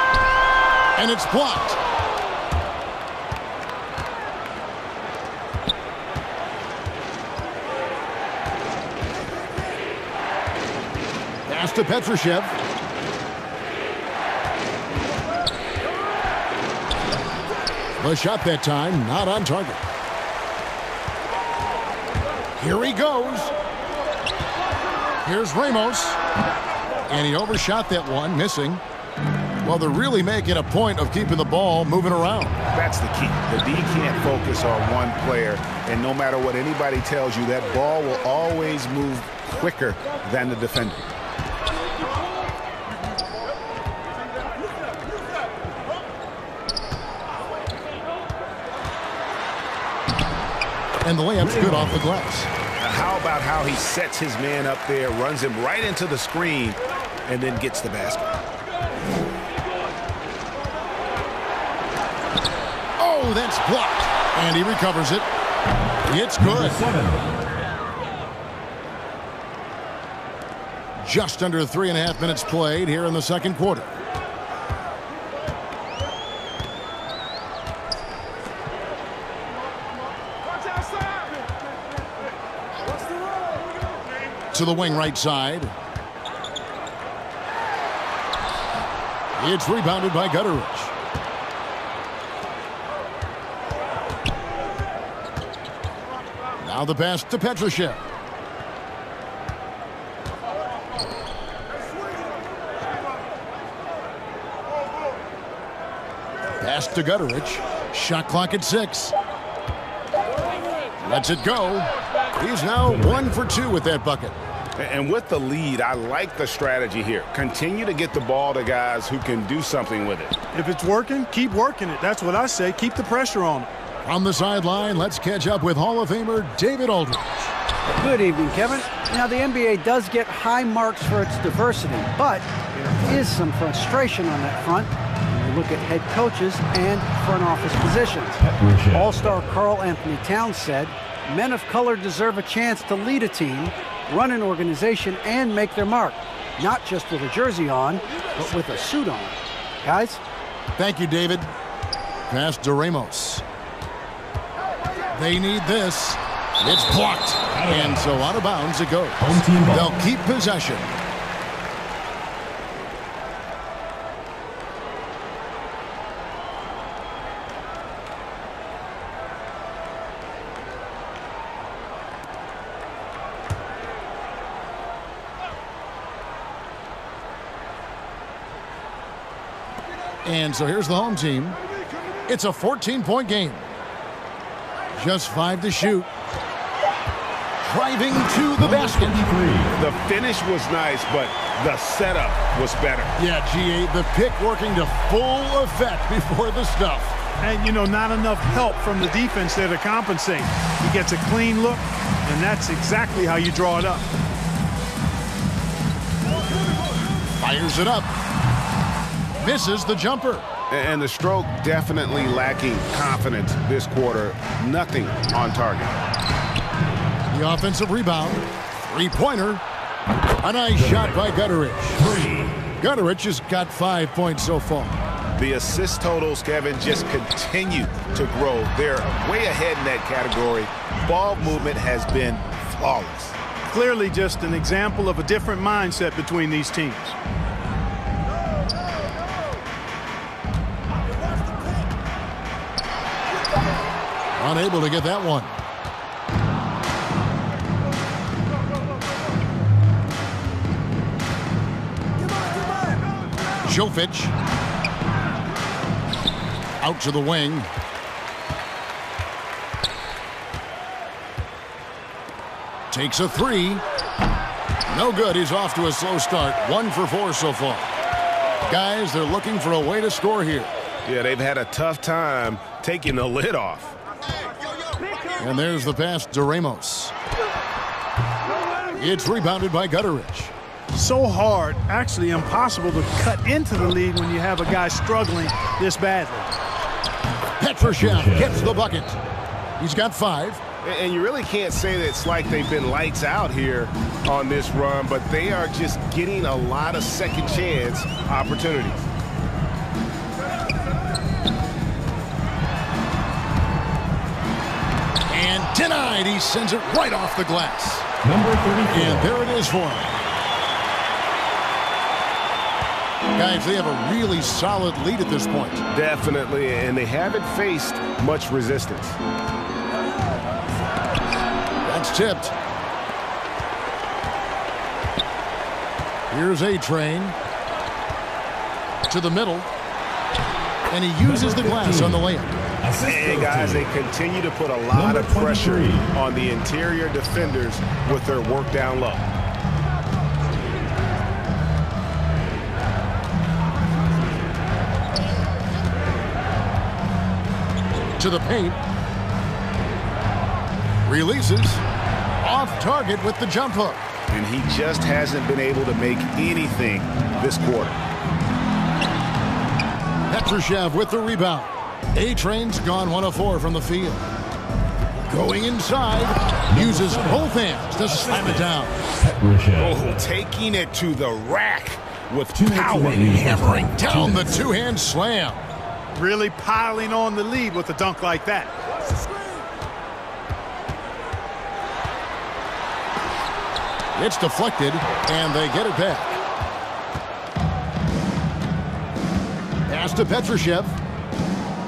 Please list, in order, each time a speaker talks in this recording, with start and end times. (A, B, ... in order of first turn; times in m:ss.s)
0:00.9-0:01.8 A
0:11.4-0:12.5 A
0:18.0-0:19.8 A
0:22.6-0:23.5 A
0:25.2-0:26.2 A
0:27.1-0:28.8 A
0:29.6-0:32.6 A
0:32.7-0:41.1 B
0:51.0-0:52.5 A
0:51.4-0:52.1 C
0:52.8-0:58.3 B
1:03.0-1:05.2 A
1:06.0-1:06.8 A
1:06.4-1:07.4 C
1:11.0-1:13.9 A
1:24.5-1:25.7 A
1:29.4-1:30.9 A
1:36.6-1:38.0 A
1:46.6-1:49.1 A
1:51.0-1:54.4 A
1:52.8-1:53.2 C
1:54.8-2:00.3 B
2:00.5-2:03.7 D
2:04.0-2:07.5 A
2:07.9-2:30.2 E
2:18.4-2:19.2 C
2:30.8-2:31.5 A
2:32.3-2:33.4 A
2:35.1-2:41.0 A
2:37.5-2:38.1 C
2:39.2-2:39.9 C
3:00.2-3:01.6 A
3:02.3-3:03.7 A
3:04.9-3:06.1 A
3:07.6-3:09.2 A
3:08.6-3:09.7 C
3:09.7-3:13.1 B
3:13.2-3:17.2 A
3:17.4-3:24.1 D
3:27.4-3:28.1 A
3:29.4-3:30.4 A
3:30.7-3:36.0 B
3:37.3-3:39.6 A
3:40.4-3:42.1 A
3:40.8-3:41.2 C
3:42.0-3:42.6 C
3:42.8-3:45.0 A
3:45.4-3:53.4 B
3:53.7-3:57.2 D
4:04.4-4:05.5 A
4:13.6-4:14.3 A
4:16.8-4:17.7 A
4:22.9-4:23.8 A
4:24.9-4:27.9 A
4:28.7-4:30.7 A
4:31.0-4:34.0 B
4:35.4-4:37.2 A
4:38.9-4:40.5 A
4:40.9-4:46.5 D
4:47.6-4:49.2 A
4:47.8-4:48.7 C
4:49.8-4:50.6 A
4:50.8-4:59.0 B
5:05.3-5:08.1 A
5:08.2-5:09.3 C
5:08.9-5:10.1 A
5:13.3-5:15.8 A
5:15.9-5:19.2 B
5:21.8-5:22.5 A
5:26.3-5:27.4 A
5:29.1-5:29.7 A
5:30.9-5:32.5 A
5:31.2-5:32.2 C
5:32.8-5:33.9 C
5:33.0-5:39.2 B
5:34.9-5:36.1 C
5:48.2-5:48.8 A
5:51.0-5:51.8 A
5:52.4-5:54.0 A
5:54.3-5:58.0 B
6:00.3-6:04.2 A
6:05.3-6:08.9 A
6:06.7-6:10.2 C
6:09.8-6:13.7 B
6:12.5-6:14.5 C
6:13.2-6:15.6 A
6:16.2-6:18.7 D
6:24.1-6:26.4 A
6:29.9-6:31.0 A